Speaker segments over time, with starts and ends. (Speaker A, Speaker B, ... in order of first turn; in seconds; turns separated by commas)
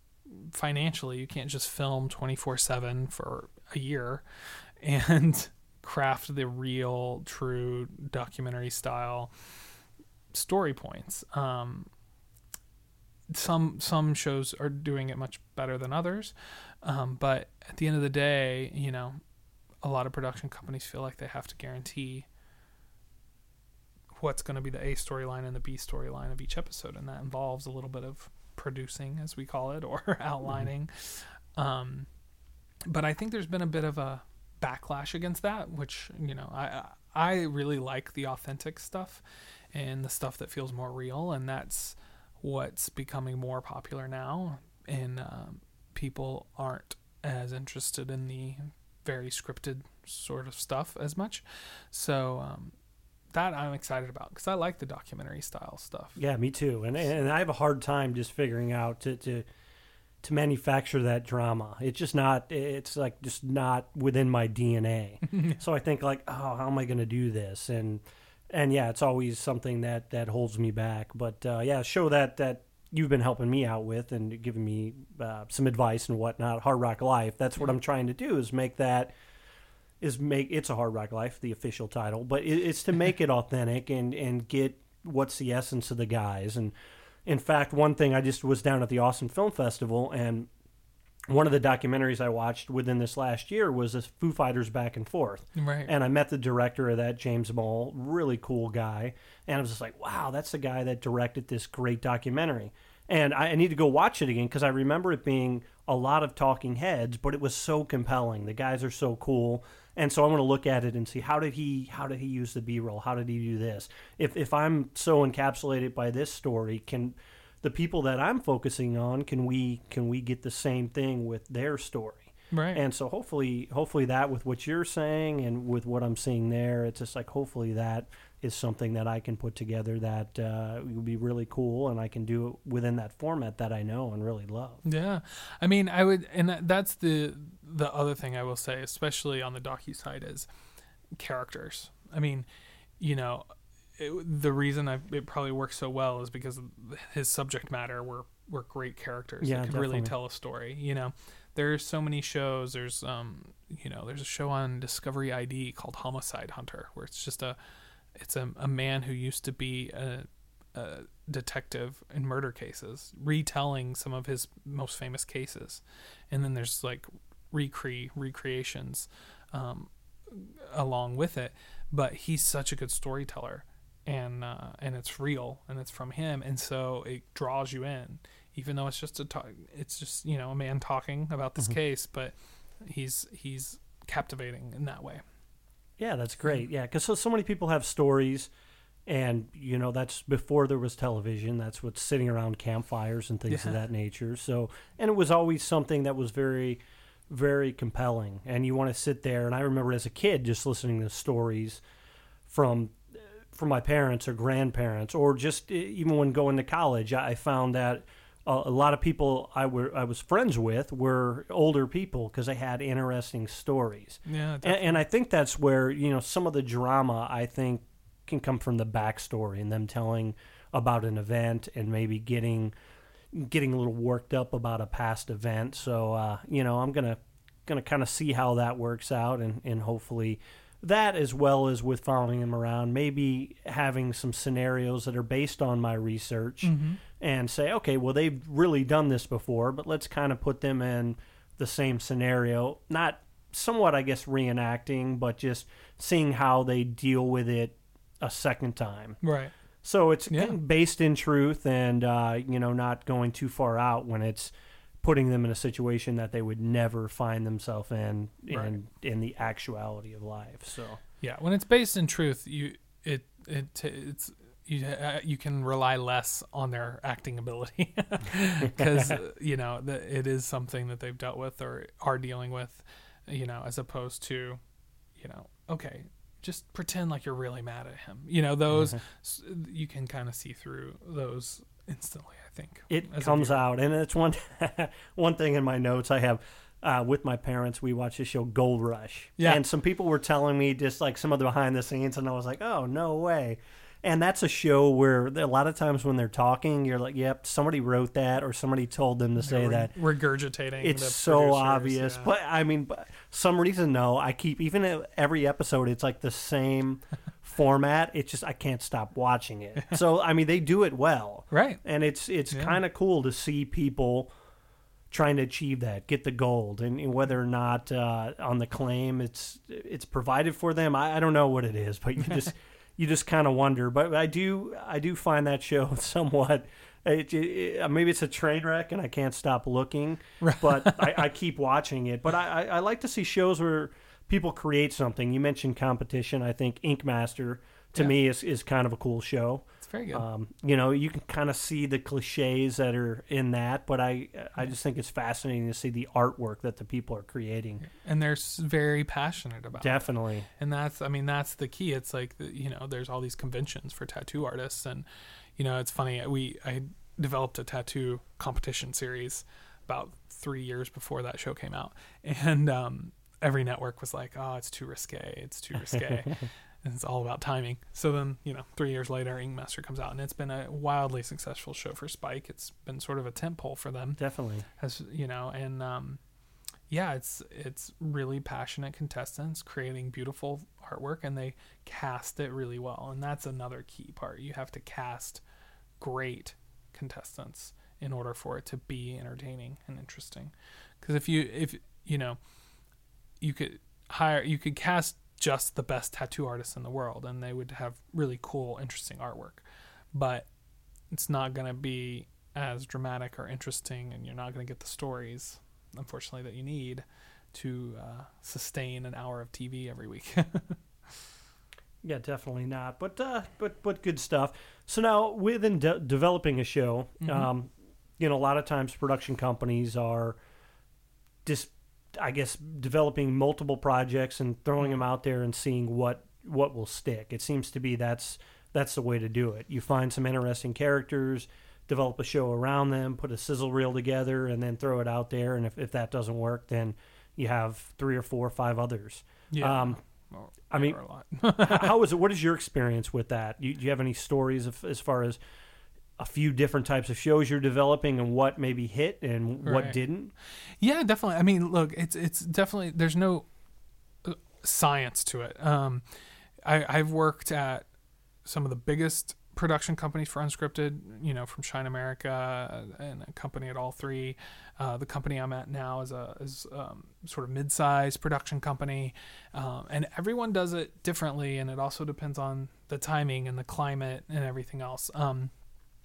Speaker A: 0.3-4.2, Speaker A: 4.8-9.3, Speaker A: 10.3-11.9, Speaker A: 13.3-19.2, Speaker A: 19.8-22.3, Speaker A: 24.1-32.1, Speaker A: 32.9-39.2, Speaker A: 39.7-52.8, Speaker A: 53.3-56.2, Speaker B: 56.2-59.5, Speaker B: 60.2-79.1, Speaker A: 65.3-65.6, Speaker B: 80.0-86.7, Speaker B: 87.3-90.5, Speaker B: 91.3-134.8, Speaker A: 95.6-95.9, Speaker A: 122.5-122.8, Speaker A: 134.8-140.5, Speaker A: 141.2-142.5, Speaker A: 143.0-157.6, Speaker B: 149.4-150.1, Speaker A: 158.2-185.2, Speaker B: 186.0-188.5, Speaker B: 189.1-196.8, Speaker A: 193.5-193.8, Speaker B: 197.3-201.8, Speaker B: 202.5-222.7, Speaker A: 214.3-215.0, Speaker B: 223.3-249.2, Speaker A: 236.6-237.0, Speaker A: 249.2-249.5, Speaker B: 249.8-254.5, Speaker A: 250.3-250.6, Speaker B: 255.0-261.0, Speaker A: 258.5-258.8, Speaker A: 261.2-274.6, Speaker A: 275.2-283.6, Speaker B: 278.7-279.0, Speaker B: 282.9-299.9, Speaker A: 299.4-302.3, Speaker B: 300.8-314.3, Speaker A: 311.5-311.8, Speaker A: 312.5-312.8, Speaker B: 315.1-347.8, Speaker A: 330.4-331.2, Speaker A: 339.8-340.3, Speaker A: 347.8-355.1, Speaker B: 349.8-350.5, Speaker A: 355.6-374.2, Speaker B: 365.9-366.5, Speaker B: 374.2-374.7, Speaker A: 374.8-376.2, Speaker A: 376.9-385.4, Speaker A: 386.0-392.4, Speaker A: 393.4-400.5, Speaker A: 401.1-410.8, Speaker B: 412.0-420.4, Speaker A: 417.2-417.5, Speaker B: 421.4-440.0, Speaker A: 439.5-441.9, Speaker B: 440.7-441.0, Speaker B: 441.6-445.4, Speaker B: 446.2-450.3, Speaker A: 449.6-450.0, Speaker A: 450.6-453.5, Speaker A: 454.2-456.0, Speaker A: 456.6-457.9, Speaker A: 458.4-475.5